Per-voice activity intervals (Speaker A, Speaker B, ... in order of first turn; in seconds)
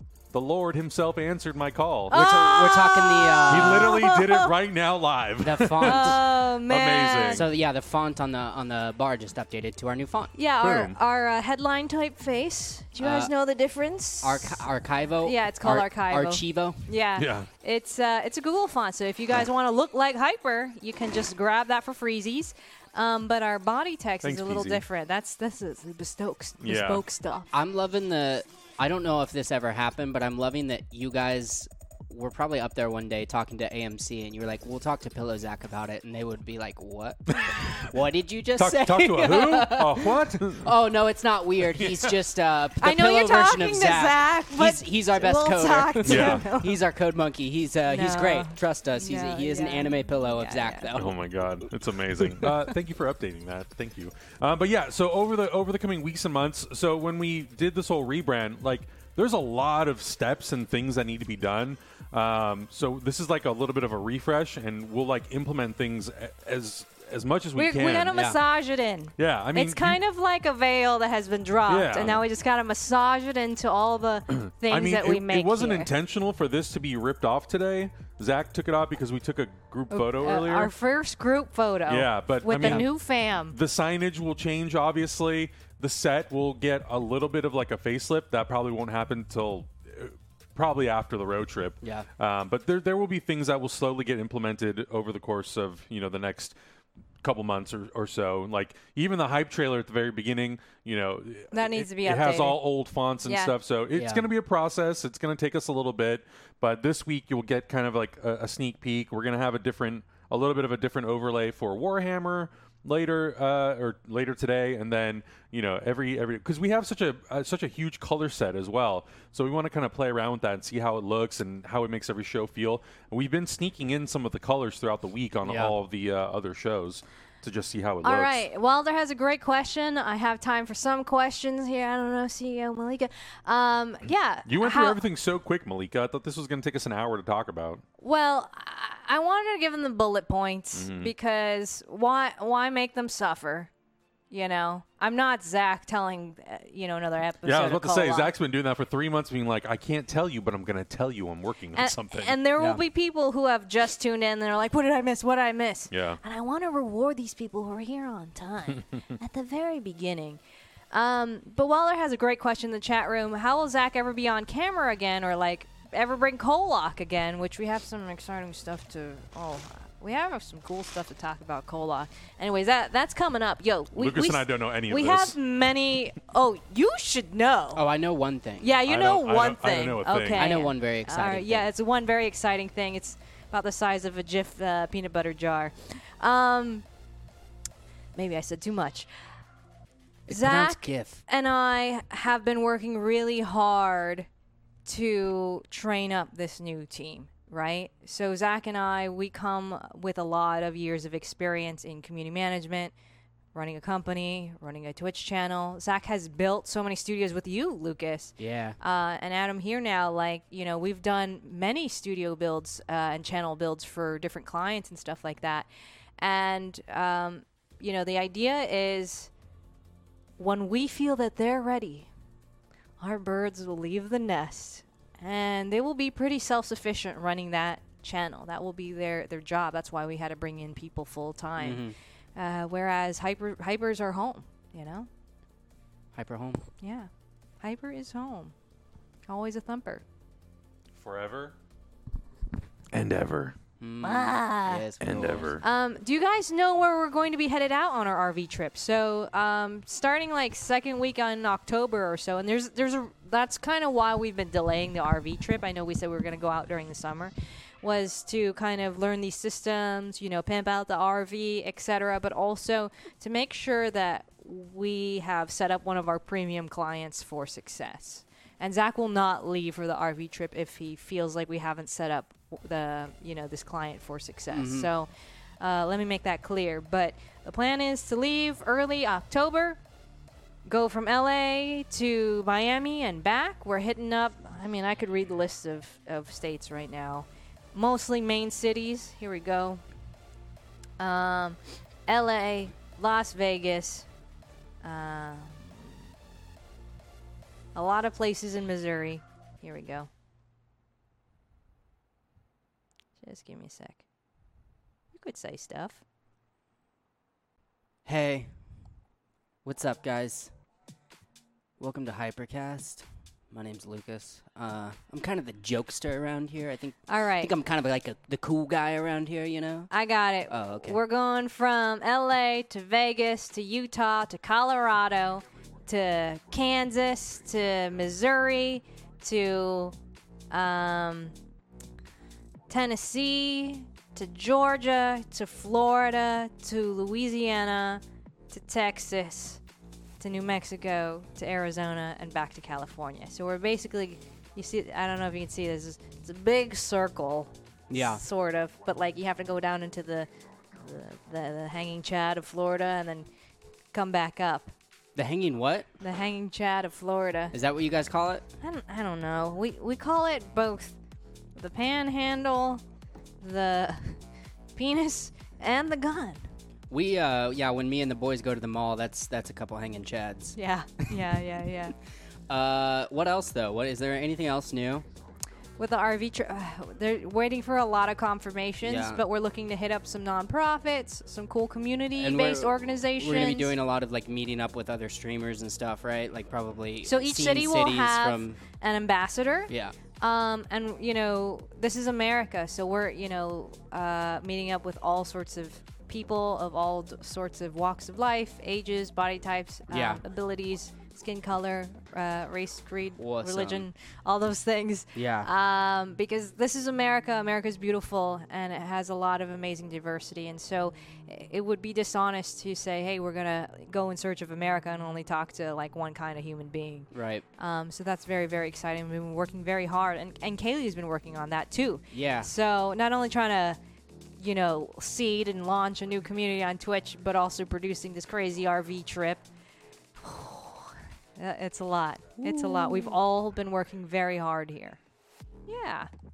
Speaker A: 0.3-2.2, 3.5-7.5, 10.6-11.0, 17.2-17.5, 24.2-24.8, 26.6-27.0, 37.3-37.9, 38.6-40.7, 41.6-42.2, 46.0-46.4, 50.9-68.2, 69.2-70.0, 71.7-72.2, 74.3-80.7, 81.9-82.9, 83.5-96.5, 97.2-128.4, 134.4-137.8, 140.7-141.1, 147.4-152.4, 155.9-156.2, 173.9-175.3, 178.9-180.5, 240.9-241.6, 242.9-243.6, 245.0-245.6
Speaker B: 2.1-4.5, 5.8-7.5, 10.3-14.6, 15.2-27.5, 42.8-46.8, 47.9-50.9, 67.5-75.9, 79.9-83.5, 101.5-102.6, 103.2-103.5, 128.0-135.0, 138.0-143.7, 144.3-148.3, 151.7-160.4, 160.9-177.8, 178.6-186.8, 188.2-189.1, 190.3-194.3, 194.8-202.9, 203.5-215.7, 216.2-219.3, 220.4-222.1, 223.0-231.8, 232.3-235.1, 236.8-237.1, 237.6-238.5, 239.3-240.0, 244.0-244.8, 245.6-275.1, 275.6-279.8, 280.6-289.8, 291.0-294.1, 294.8-295.9, 297.7-300.1, 303.2-304.0, 305.1-306.0, 317.1-317.5, 319.9-329.9, 330.5-331.3, 332.7-339.6, 340.2-353.3, 353.9-354.7, 356.0-357.5, 358.6-360.9, 361.6-362.8, 363.4-364.2, 364.8-366.4, 370.6-371.9, 375.8-383.7, 387.0-423.8, 424.4-429.4, 430.2-435.0, 435.7-436.1
Speaker C: 2.1-4.0, 5.4-6.2, 7.3-10.3, 13.0-13.3, 14.2-16.8, 27.5-51.1, 52.3-52.6, 68.1-68.4, 82.6-82.8, 91.8-92.1, 103.9-104.2, 125.4-125.7, 177.7-178.7, 180.4-181.7, 190.3-191.2, 208.4-208.8, 231.6-231.9, 236.1-236.6, 243.8-245.5, 274.5-274.9, 308.1-308.5, 309.6-310.5, 311.8-319.9, 320.5-321.0, 347.9-348.2, 355.1-355.9, 357.5-358.4, 366.9-370.6, 372.5-375.0, 378.8-379.2, 382.2-388.6, 389.7-389.9, 399.9-400.2, 403.2-403.9, 405.1-405.5, 417.1-417.4, 422.1-422.5, 432.4-433.1